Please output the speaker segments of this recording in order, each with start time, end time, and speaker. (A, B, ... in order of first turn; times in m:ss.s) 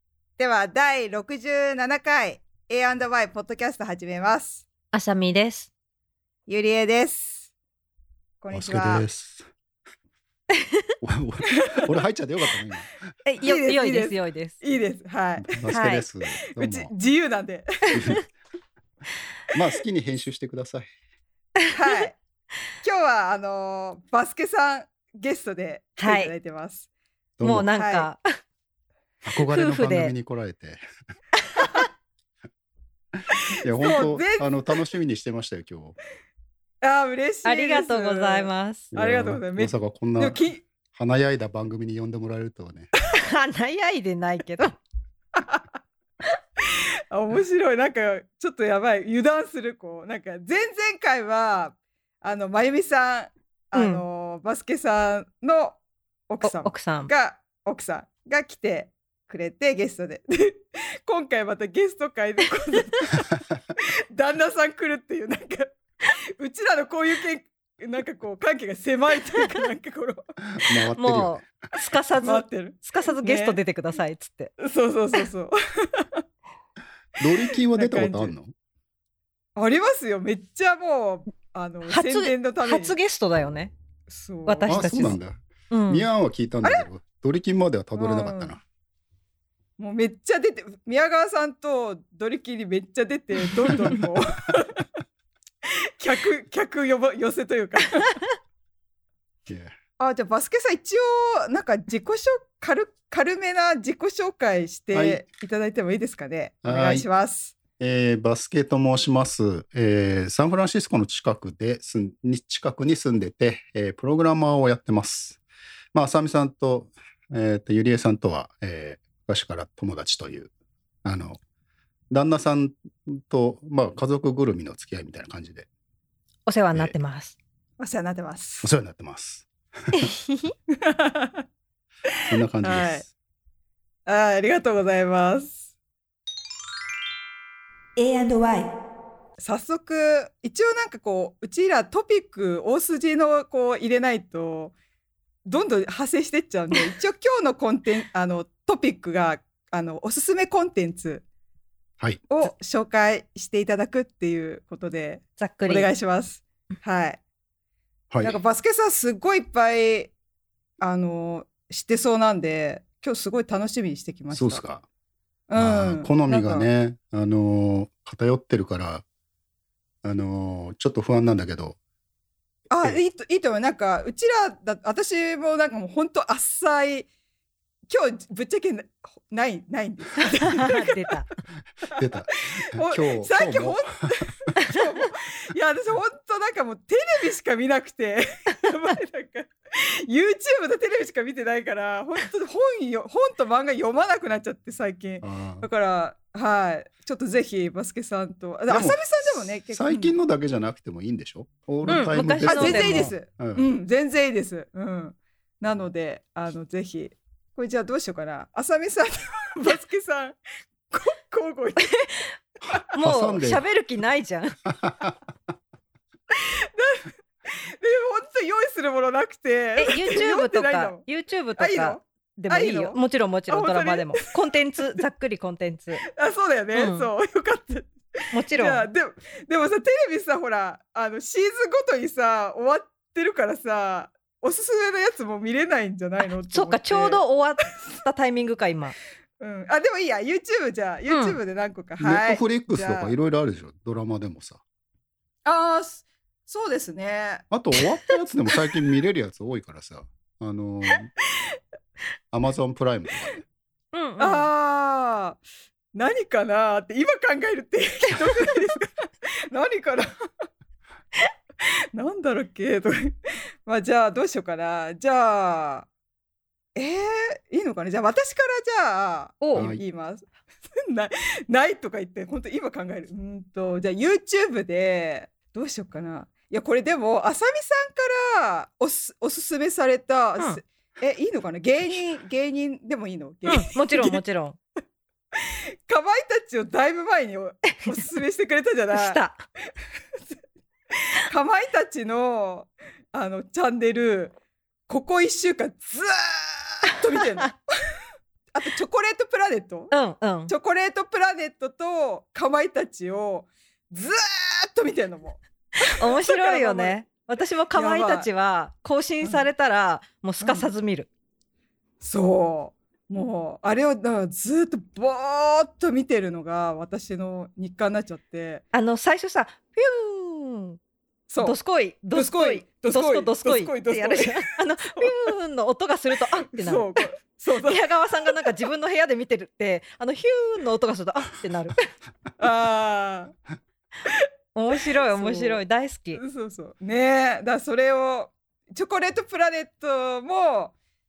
0:00.4-0:04.6 A
0:04.9-0:05.7 B
0:06.5-0:07.5 A
0:08.4-0:09.0 A
0:08.5-0:09.5 C
0:10.5-0:10.9 B
0:11.0-0:12.9 C
0:11.5-0:11.8 A
0:13.2-0:14.6 B
0:13.4-0:15.8 A
0:15.4-0:16.9 C
0:15.7-0:16.0 B
0:16.5-0:18.1 A
0:17.9-0:18.2 C
0:19.5-0:20.9 C
0:21.7-0:22.2 A
0:22.8-0:26.9 A
0:26.0-0:26.3 B
0:27.4-0:27.7 C
0:27.4-0:28.2 B
0:27.7-0:28.1 A
0:29.2-0:30.8 C
0:29.4-0:30.1 B
0:31.5-0:31.8 B
0:33.2-0:36.0 C
0:33.3-0:34.8 A
0:36.8-0:40.6 A
0:37.4-0:38.9 B
0:38.9-0:40.4 C
0:40.9-0:42.9 C
0:43.1-0:44.8 B
0:45.3-0:45.6 A
0:46.6-1:03.3 A
0:53.7-0:54.0 B
0:56.4-0:57.1 B
1:04.1-1:05.7 A
1:06.4-1:10.3 A
1:10.6-1:11.5 C
1:10.9-1:14.5 B
1:12.2-1:13.6 A
1:14.6-1:16.2 A
1:17.2-1:18.5 C
1:17.2-1:18.3 A
1:19.6-1:22.9 A
1:21.8-1:23.7 B
1:24.1-1:25.1 A
1:24.4-1:25.2 B
1:24.7-1:28.6 C
1:25.7-1:26.1 B
1:27.9-1:28.6 A
1:29.8-1:34.8 A
1:35.6-1:38.2 A
1:39.5-1:39.7 C
1:40.0-1:47.6 A
1:44.9-1:45.2 C
1:46.6-1:47.0 C
1:47.8-1:55.4 C
1:55.9-2:00.5 C
2:01.0-2:01.4 C
2:02.1-2:05.7 C
2:06.5-2:07.4 B
2:07.8-2:08.7 A
2:08.6-2:10.0 C
2:09.9-2:10.5 B
2:10.8-2:11.4 A
2:12.3-2:13.1 C
2:12.6-2:13.0 A
2:14.0-2:15.6 A
2:18.0-2:18.7 A
2:19.4-2:24.7 A
2:25.4-2:31.2 A
2:32.3-2:37.2 A
2:35.4-2:35.9 B
2:38.1-2:38.4 C
2:38.2-2:40.1 A
2:40.8-2:44.6 A
2:44.3-2:44.8 C
2:45.5-2:46.7 A
2:45.6-2:49.0 C
2:50.0-2:51.8 C
2:52.7-2:57.1 A
2:57.9-3:01.1 A
3:00.2-3:01.3 B
3:01.9-3:20.1 A
3:02.0-3:04.2 C
3:15.2-3:15.6 C
3:18.7-3:23.6 C
3:21.8-3:30.4 A
3:21.9-3:23.1 B
3:30.9-3:32.0 A
3:31.8-3:32.3 B
3:32.9-3:34.5 B
3:33.0-3:33.6 C
3:34.8-3:35.1 C
3:36.3-3:41.0 A
3:39.8-3:46.0 B
3:41.6-3:45.0 A
3:46.0-3:57.2 A
3:46.7-3:47.1 B
3:48.3-3:48.8 B
3:56.5-3:59.0 B
3:59.4-4:03.1 A
4:01.1-4:01.4 B
4:02.0-4:04.6 C
4:05.4-4:07.4 A
4:07.5-4:11.1 C
4:12.3-4:13.4 C
4:13.9-4:14.5 B
4:14.2-4:15.4 A
4:15.9-4:20.1 A
4:21.9-4:25.9 A
4:26.7-4:44.2 A
4:29.4-4:29.7 B
4:29.6-4:29.8 C
4:43.4-4:44.6 B
4:45.3-4:49.2 A
4:47.7-4:48.0 B
4:48.9-4:49.4 B
4:51.1-4:54.3 A
4:54.9-4:57.6 A
4:57.2-4:57.5 B
4:58.5-4:59.9 A
4:59.9-5:00.5 B
5:00.5-5:07.0 A
5:05.8-5:11.1 B
5:07.7-5:08.3 A
5:09.2-5:09.5 A
5:10.4-5:10.7 A
5:12.0-5:18.6 A
5:18.7-5:20.8 B
5:21.3-5:21.6 A
5:21.4-5:27.1 B
5:22.1-5:25.1 A
5:26.4-5:28.5 A
5:27.6-5:31.9 B
5:32.4-5:33.3 A
5:34.0-5:35.6 A
5:34.5-5:36.2 B
5:36.1-5:40.7 A